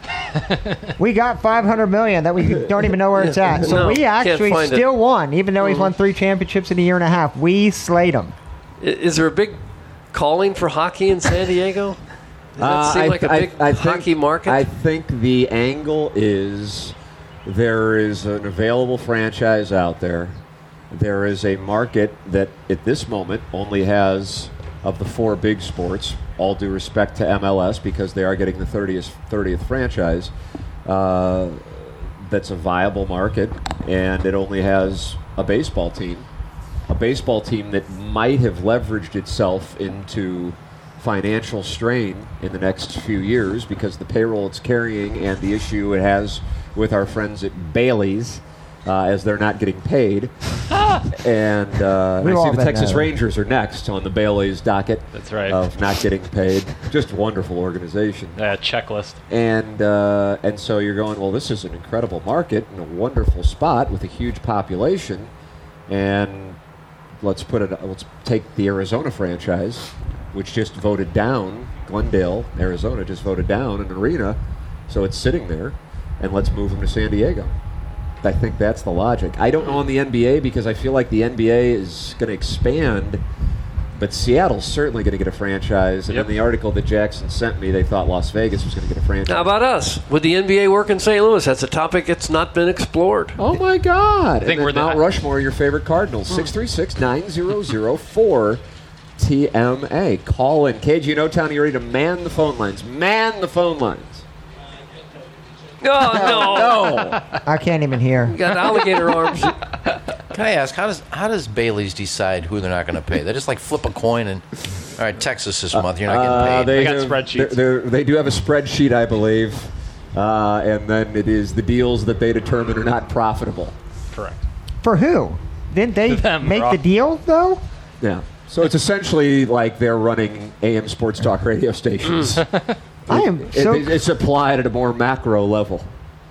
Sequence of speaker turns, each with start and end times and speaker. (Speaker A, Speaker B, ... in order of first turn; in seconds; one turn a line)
Speaker A: 1.0-8.3
Speaker B: 3.1-4.9
Speaker B: 5.6-5.9
Speaker B: 8.8-9.6
Speaker B: 10.1-12.0
Speaker B: 12.6-14.6
Speaker C: 12.6-30.3
Speaker C: 30.8-36.3
Speaker C: 36.9-50.3
Speaker C: 51.1-58.4
Speaker A: 52.2-53.1
Speaker D: 55.1-55.6
Speaker D: 58.4-59.2
Speaker C: 59.3-65.3
Speaker C: 65.9-66.6
Speaker C: 67.2-77.5
Speaker C: 78.2-83.2
Speaker C: 84.0-89.5
Speaker B: 89.3-93.4
Speaker C: 93.4-98.6
Speaker D: 94.4-95.0
Speaker C: 99.2-104.2
Speaker B: 105.8-107.0
Speaker C: 106.0-107.3
Speaker A: 107.4-108.4
Speaker B: 108.3-109.6
Speaker E: 110.3-116.8
Speaker C: 115.7-123.7
Speaker D: 116.6-117.6
Speaker D: 124.1-124.4
Speaker A: 124.8-127.6
Speaker D: 126.1-126.8
Speaker C: 128.0-132.4
Speaker C: 133.1-135.9
Speaker A: 133.1-133.9